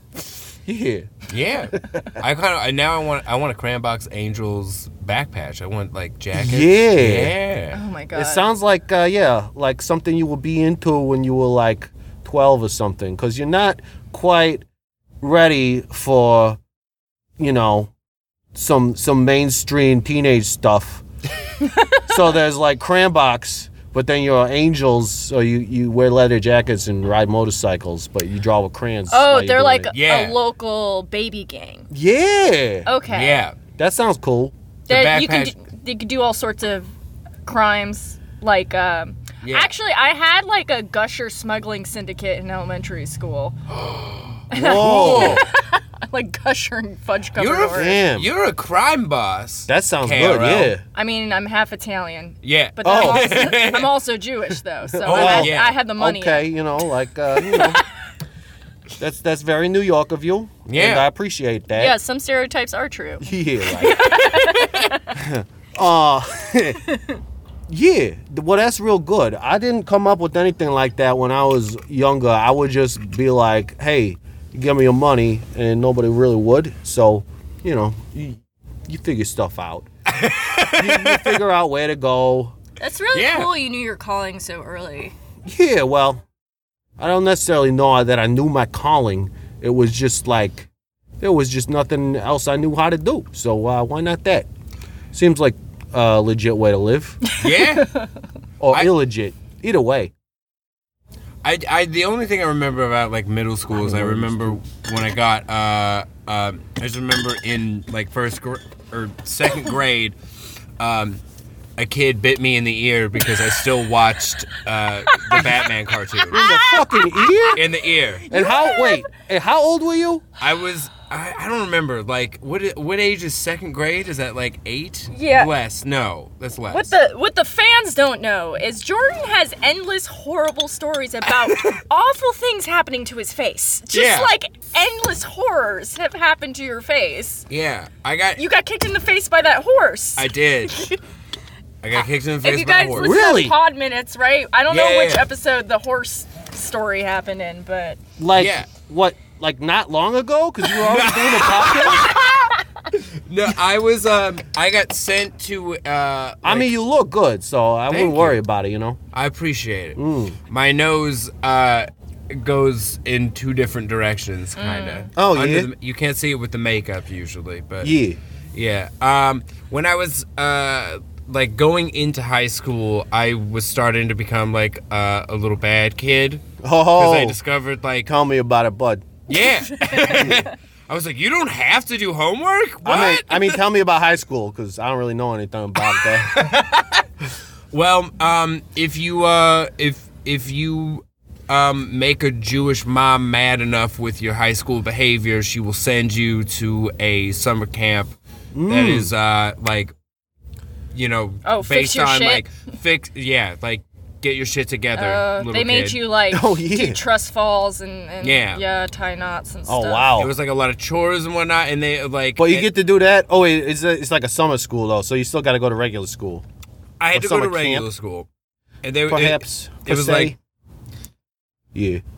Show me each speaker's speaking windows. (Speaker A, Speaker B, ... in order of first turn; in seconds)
Speaker A: 0.7-1.1, 1.8-2.1, 6.3-7.3, 8.1-14.6, 15.2-16.6, 17.4-17.9, 18.5-21.0, 22.1-29.9, 31.9-32.9, 33.8-34.5, 44.5-45.4, 47.7-48.3, 49.7-50.8, 52.8-53.4, 54.9-57.8, 59.0-61.9, 63.2-64.0, 65.1-66.8, 67.7-79.9, 80.7-82.5, 85.5-86.2, 87.0-90.7, 91.2-94.5, 95.1-97.2, 98.6-100.1, 103.7-104.6, 116.3-117.6, 118.3-120.2, 142.9-143.5, 148.2-152.1, 156.4-159.0, 159.9-160.4, 165.2-165.7, 167.8-168.2, 176.6-177.4, 178.0-179.1, 180.1-180.4, 182.8-186.4, 198.5-199.1, 206.3-207.0, 209.7-210.3, 212.4-216.4, 217.1-217.9, 219.1-220.3, 221.7-222.0
Speaker B: 1.3-7.8, 29.9-30.4, 33.1-33.5, 34.9-35.5, 39.4-39.7, 43.7-45.4, 47.4-50.7, 52.4-53.9, 55.0-55.8, 60.7-61.1, 64.3-64.9, 80.1-81.4, 83.1-83.5, 97.4-97.9, 101.4-110.2, 110.8-111.2, 111.8-116.4, 117.5-118.2, 120.4-126.9, 133.9-134.3, 137.5-138.4, 140.2-140.9, 141.8-143.2, 144.7-145.2, 148.3-148.7, 150.7-156.7, 157.9-158.4, 159.1-167.9, 168.5-178.1, 179.3-183.6, 186.3-187.1, 187.7-198.1, 198.7-199.9, 200.9-206.0, 208.2-208.6, 210.2-212.7, 217.0-218.3, 218.8-220.3
Speaker C: 7.7-8.4, 21.6-22.0, 29.1-31.9, 32.9-33.4, 34.9-36.9, 37.5-43.6, 44.5-48.0, 50.9-56.5, 57.5-57.8, 61.7-65.0, 82.8-85.1, 97.5-98.0, 115.1-115.6, 116.2-117.6, 118.3-119.0, 125.1-125.5, 126.7-137.5, 138.4-141.0, 142.4-148.0, 152.0-152.6, 164.6-165.1, 179.7-180.3, 201.4-202.5, 204.9-210.1